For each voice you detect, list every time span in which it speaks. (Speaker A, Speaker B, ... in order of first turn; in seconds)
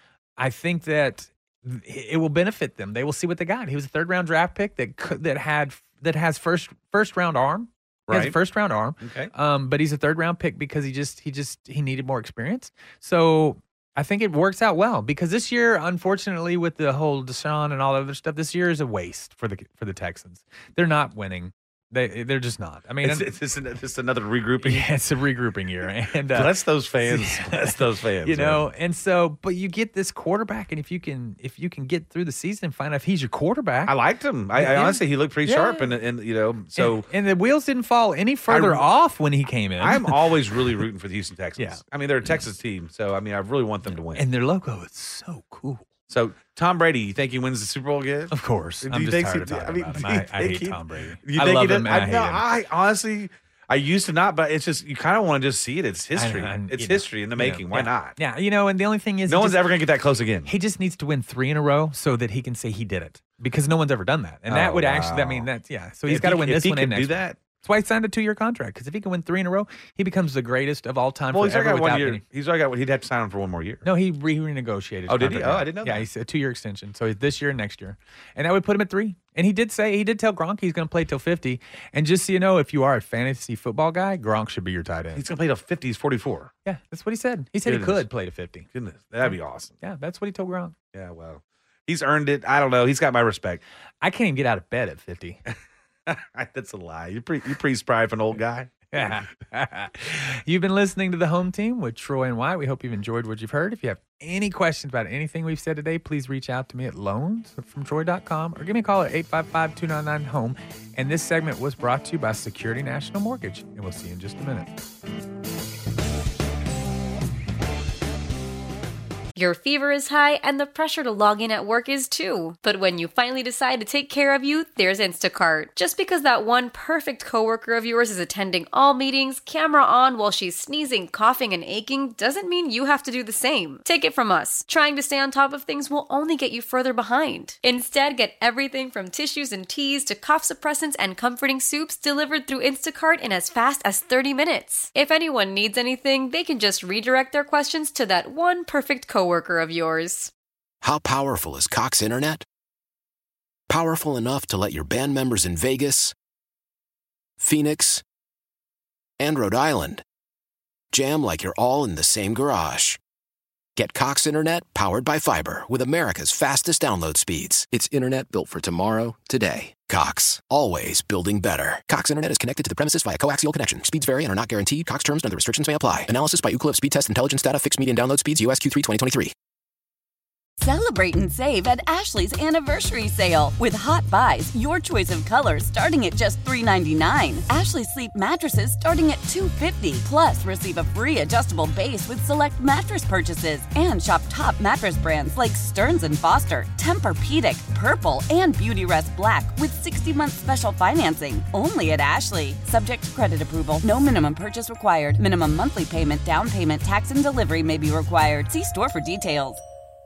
Speaker A: 0.4-23.3, 24.6-26.5, 27.0-34.0, 34.5-35.9, 36.8-40.2, 41.6-42.3, 43.9-45.9, 48.3-52.4, 56.1-59.6, 60.4-72.2, 73.8-85.2, 86.7-88.7, 89.2-90.7, 94.0-95.4, 98.9-114.7
Speaker B: 8.1-8.4, 9.0-9.3, 23.0-24.9, 26.3-28.6, 33.9-37.1, 38.5-38.9, 39.8-44.2, 46.1-58.2, 59.3-60.5, 64.5-65.5, 66.1-67.4, 71.3-73.8, 75.1-76.1, 85.1-86.5, 87.6-88.1, 88.7-89.8, 90.9-93.6, 96.1-99.2
Speaker C: 119.3-150.3
Speaker D: 150.8-152.4, 153.7-156.1, 157.4-158.0, 159.2-160.0, 160.9-163.0, 163.7-179.3
Speaker E: 180.6-209.6